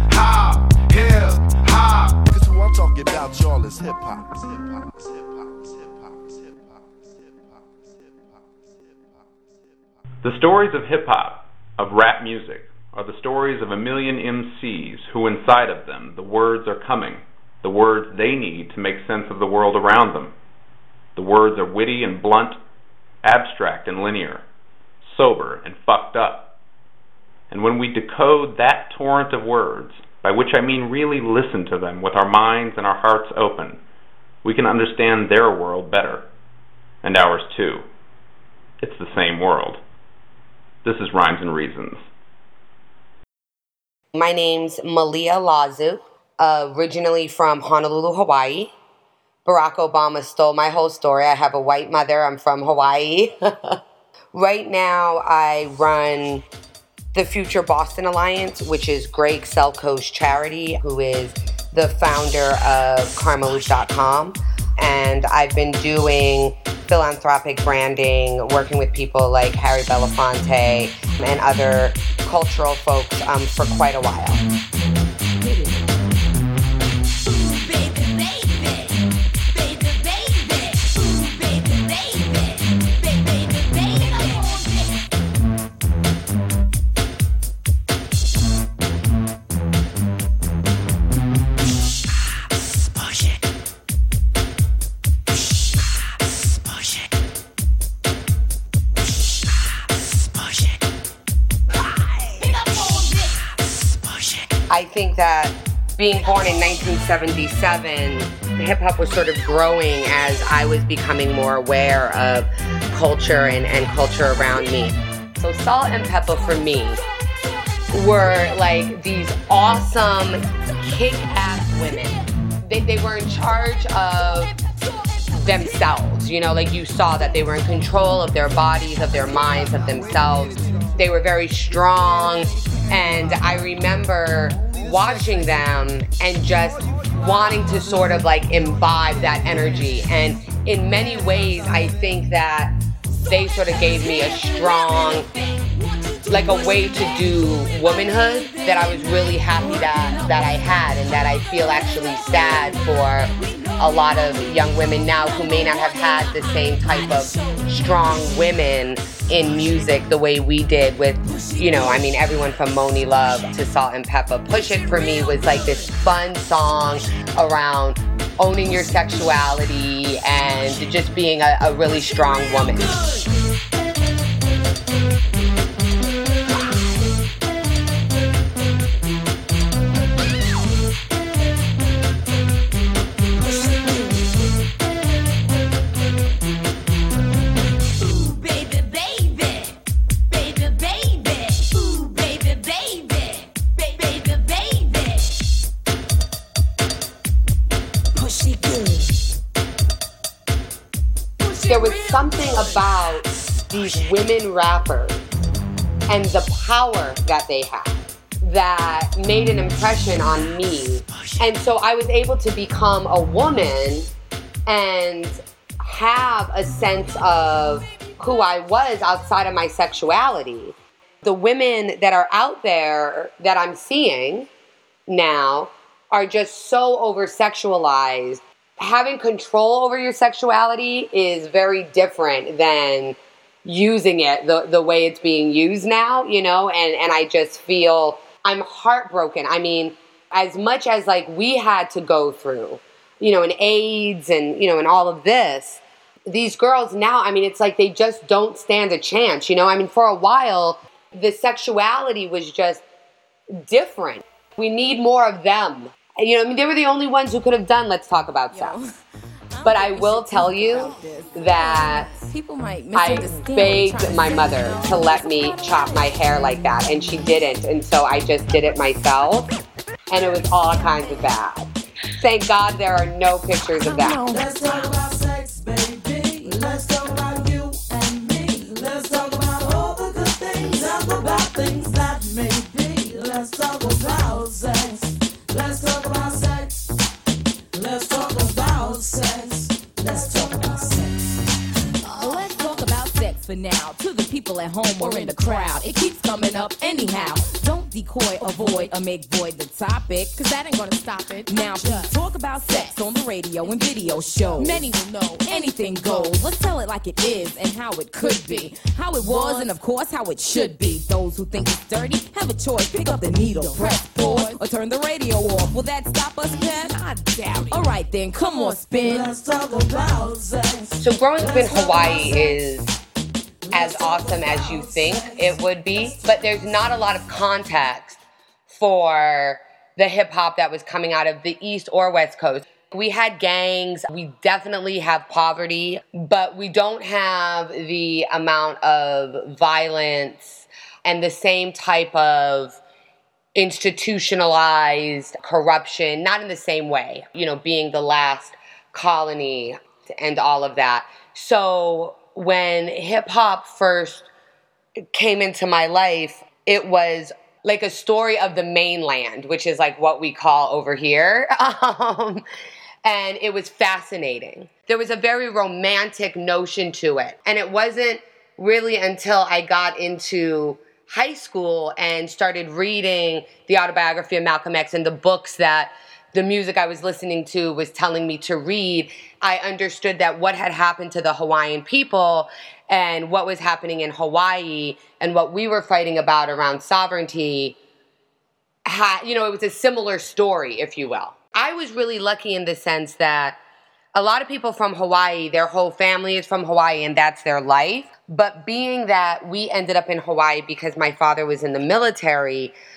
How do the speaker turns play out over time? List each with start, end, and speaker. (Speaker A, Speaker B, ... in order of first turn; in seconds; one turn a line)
Speaker A: 0.1-8.4
Speaker B: 10.2-20.3
Speaker B: 21.2-22.6
Speaker B: 23.2-24.4
Speaker B: 25.1-26.5
Speaker B: 27.5-33.8
Speaker B: 34.4-36.3
Speaker B: 37.0-37.9
Speaker B: 38.8-39.8
Speaker B: 40.9-42.0
Speaker C: 44.1-48.7
Speaker C: 49.5-53.8
Speaker C: 54.3-56.4
Speaker C: 57.1-74.4
Speaker D: 75.4-75.7
Speaker D: 77.3-79.0
Speaker D: 79.5-85.0
Speaker D: 102.2-103.5
Speaker C: 104.7-117.0
Speaker C: 117.9-124.5
Speaker C: 125.4-142.7
Speaker C: 143.3-145.3
Speaker D: 143.9-158.6
Speaker C: 146.3-173.0
Speaker D: 161.3-162.0
Speaker D: 165.0-165.9
Speaker D: 183.5-184.2
Speaker D: 188.0-189.7
Speaker D: 190.3-195.3
Speaker D: 198.3-199.0
Speaker D: 201.5-202.7
Speaker C: 201.7-205.2
Speaker C: 206.1-214.1
Speaker C: 214.7-224.5
Speaker C: 225.1-252.8
Speaker C: 253.5-258.8
Speaker D: 258.5-258.9
Speaker D: 259.5-267.5
Speaker C: 259.6-262.3
Speaker C: 262.9-269.5
Speaker C: 270.1-274.2
Speaker D: 273.8-274.4
Speaker E: 274.2-286.8
Speaker E: 287.8-291.3
Speaker D: 292.1-317.0
Speaker E: 313.3-314.5
Speaker E: 317.0-317.8
Speaker D: 317.7-319.3
Speaker E: 318.9-322.6
Speaker C: 321.0-322.9
Speaker E: 323.7-325.6
Speaker C: 323.7-342.8
Speaker C: 343.6-354.3
Speaker C: 355.1-362.4
Speaker C: 363.1-387.8
Speaker C: 388.9-393.6
Speaker C: 394.1-402.8